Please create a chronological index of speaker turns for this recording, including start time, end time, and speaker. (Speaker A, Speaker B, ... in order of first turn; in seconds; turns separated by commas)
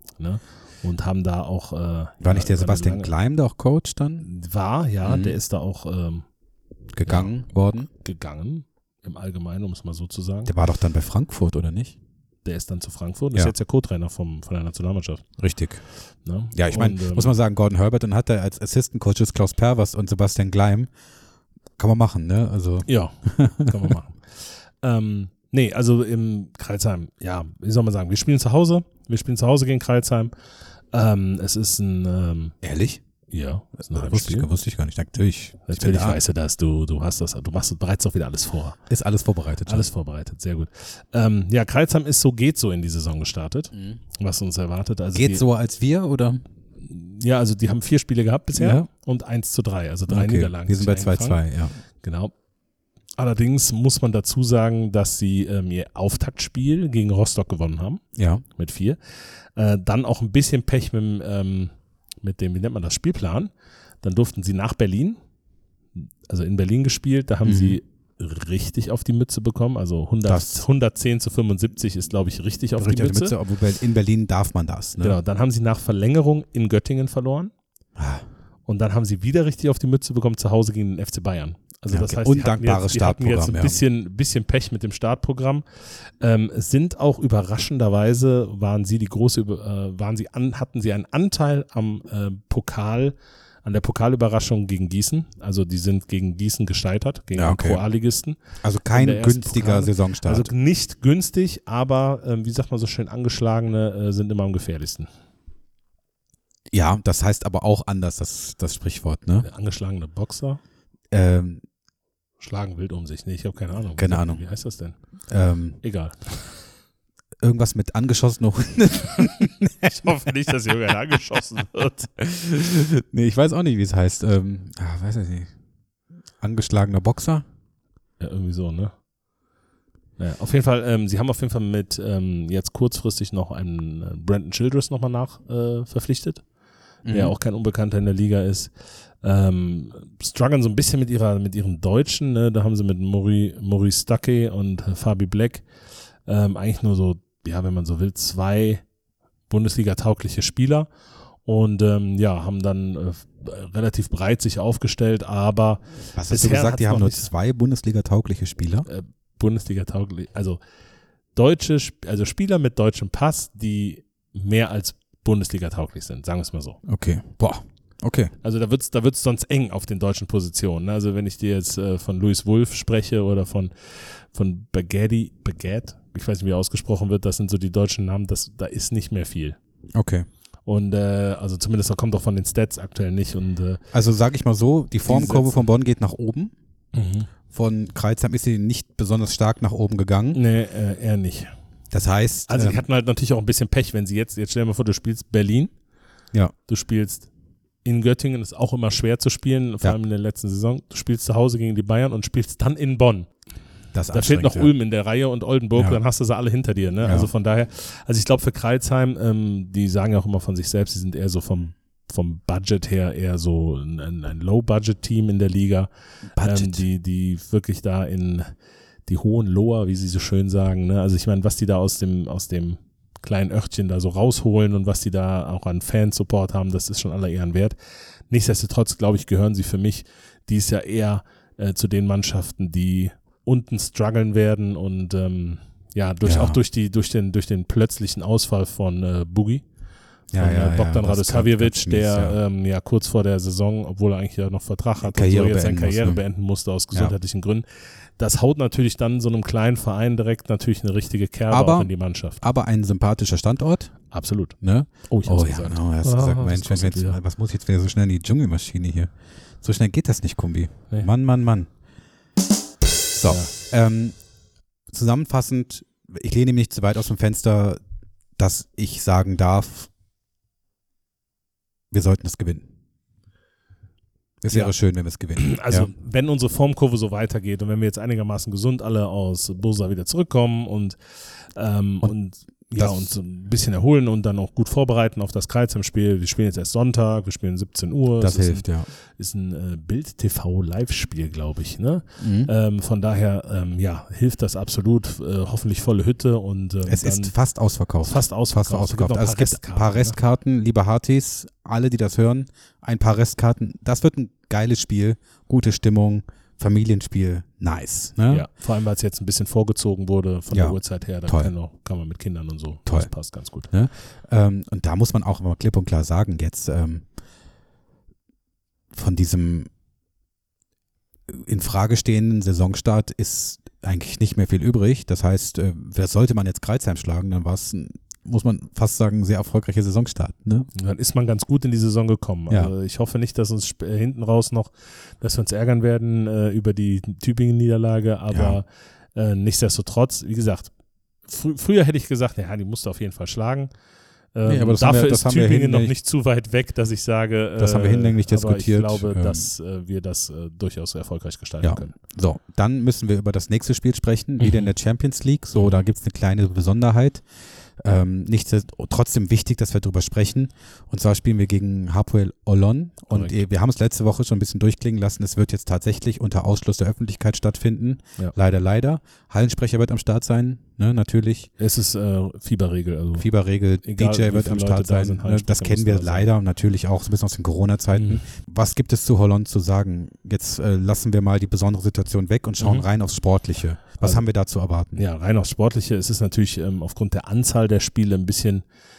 Speaker A: 0.2-3.1, Speaker B: 2.2-4.3, Speaker A: 4.2-6.2, Speaker B: 5.0-5.4, Speaker B: 6.9-7.9, Speaker A: 7.0-7.3, Speaker A: 8.0-10.5, Speaker B: 10.4-11.9, Speaker A: 12.4-15.2, Speaker B: 15.4-15.8, Speaker A: 16.2-17.3, Speaker B: 16.5-20.9, Speaker B: 21.8-23.9, Speaker A: 22.9-30.3, Speaker A: 30.9-32.5, Speaker B: 32.6-33.0, Speaker A: 33.3-34.5, Speaker B: 33.8-36.2, Speaker A: 35.7-38.8, Speaker B: 38.9-39.9, Speaker A: 39.6-45.4, Speaker B: 45.1-46.4, Speaker A: 46.8-51.4, Speaker B: 48.5-48.9, Speaker B: 50.1-51.8, Speaker A: 52.0-52.3, Speaker A: 53.2-59.0, Speaker B: 58.1-58.4, Speaker A: 59.5-63.5, Speaker A: 64.0-65.2, Speaker A: 65.9-73.3, Speaker B: 67.4-67.8, Speaker B: 70.2-70.6, Speaker B: 72.8-75.2, Speaker A: 75.0-77.5, Speaker B: 78.0-78.2, Speaker A: 78.7-98.4, Speaker B: 81.9-83.8, Speaker B: 97.3-97.8, Speaker B: 98.6-100.5, Speaker A: 98.9-105.1, Speaker B: 106.7-109.5, Speaker A: 109.4-110.6, Speaker B: 111.1-111.6, Speaker A: 112.4-115.0, Speaker B: 114.0-114.4, Speaker B: 115.3-115.8, Speaker A: 115.8-116.6, Speaker B: 117.4-120.1, Speaker A: 119.9-122.1, Speaker B: 122.2-125.5, Speaker B: 126.4-127.4, Speaker A: 128.2-128.9, Speaker A: 130.2-136.4, Speaker B: 137.0-137.3, Speaker A: 137.1-145.7, Speaker A: 146.2-148.8, Speaker A: 149.5-150.9, Speaker A: 151.4-157.3, Speaker B: 156.1-158.9, Speaker A: 158.8-160.6, Speaker A: 161.3-166.8, Speaker B: 166.8-168.3, Speaker A: 168.4-179.6, Speaker B: 179.9-180.3, Speaker A: 180.7-183.8, Speaker B: 183.9-186.5, Speaker A: 185.1-185.5, Speaker A: 186.9-187.3, Speaker B: 187.5-190.4, Speaker A: 190.3-191.5, Speaker B: 191.9-192.8, Speaker A: 192.5-195.7, Speaker A: 196.7-197.3, Speaker A: 197.8-203.3, Speaker B: 203.9-204.7, Speaker A: 204.1-218.5, Speaker B: 207.0-207.3, Speaker B: 216.3-216.8, Speaker A: 219.1-227.8, Speaker A: 228.3-239.7, Speaker B: 236.2-236.6, Speaker B: 240.3-242.4, Speaker A: 240.3-247.7, Speaker B: 245.0-246.2, Speaker A: 248.2-252.4, Speaker B: 251.5-253.9, Speaker A: 254.1-257.2, Speaker B: 254.6-259.1, Speaker B: 259.6-261.7, Speaker B: 263.1-264.2, Speaker B: 264.9-267.8, Speaker B: 268.4-269.9, Speaker B: 271.9-272.7, Speaker B: 274.4-275.9, Speaker A: 275.4-297.3, Speaker B: 282.8-283.1, Speaker B: 288.2-288.9, Speaker B: 292.2-292.5, Speaker B: 296.9-308.4, Speaker A: 298.0-300.2, Speaker A: 308.3-313.7, Speaker B: 310.5-311.5, Speaker B: 312.9-313.1, Speaker B: 313.7-317.0, Speaker B: 318.9-319.7, Speaker B: 321.3-330.7, Speaker A: 330.7-340.7, Speaker B: 338.3-338.6, Speaker A: 341.2-343.7, Speaker A: 344.3-351.9, Speaker B: 344.5-345.9, Speaker B: 347.6-349.5, Speaker B: 351.6-357.2, Speaker A: 354.4-354.7, Speaker A: 355.5-355.8, Speaker B: 357.8-371.5, Speaker A: 363.1-363.4, Speaker A: 371.6-373.3, Speaker B: 373.2-385.0, Speaker A: 373.8-376.3, Speaker A: 377.9-378.2, Speaker A: 382.6-382.9, Speaker A: 384.9-388.6